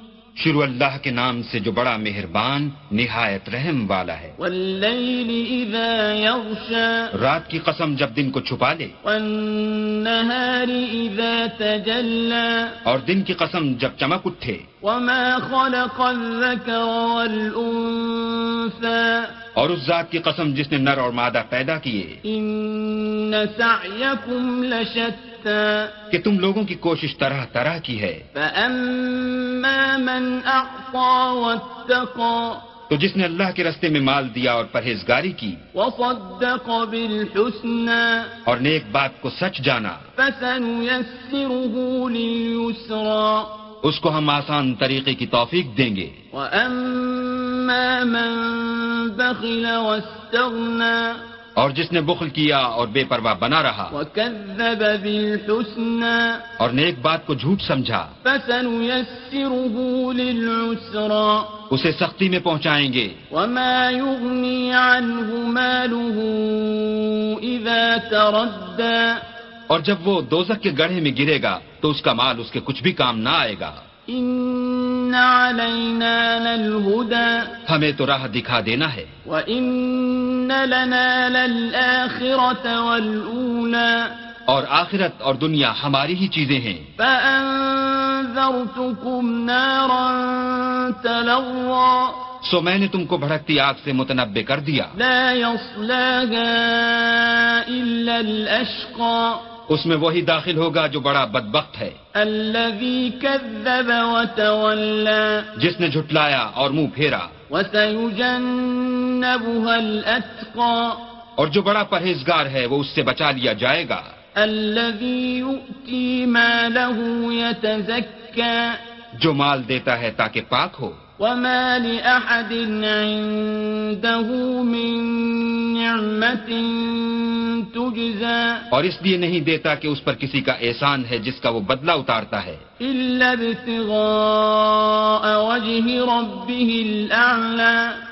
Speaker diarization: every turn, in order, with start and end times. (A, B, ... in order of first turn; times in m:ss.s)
0:00.4-0:04.4 A
0:04.4-0:07.1 B
0:07.2-0:08.9 A
0:09.0-0:12.8 B
0:12.9-0:14.6 A
0:14.8-0:19.3 B
0:19.6-0:22.2 A
0:22.2-0:25.9 B
0:26.1-0:28.2 A
0:28.4-0:32.6 B
0:32.9-0:35.6 A
0:35.8-0:38.3 B
0:38.5-0:40.0 A
0:40.2-0:43.5 B
0:43.8-0:46.1 A
0:46.3-0:51.2 B
0:51.6-0:53.9 A
0:53.9-0:56.4 B
0:56.6-0:58.1 A
0:58.2-1:01.5 B
1:01.7-1:03.2 A
1:03.3-1:09.2 B
1:09.7-1:13.8 A
1:14.1-1:17.5 B
1:17.7-1:19.1 A
1:19.3-1:24.1 B
1:24.5-1:26.9 A
1:27.0-1:32.2 B
1:32.4-1:34.9 A
1:35.0-1:39.4 B
1:39.7-1:42.0 A
1:42.2-1:45.5 B
1:45.6-1:47.3 A
1:47.5-1:51.0 B
1:51.4-1:54.0 A
1:54.4-1:58.8 B
1:59.2-2:01.0 A
2:01.2-2:08.6 B
2:08.7-2:12.6 A
2:12.8-2:18.0 B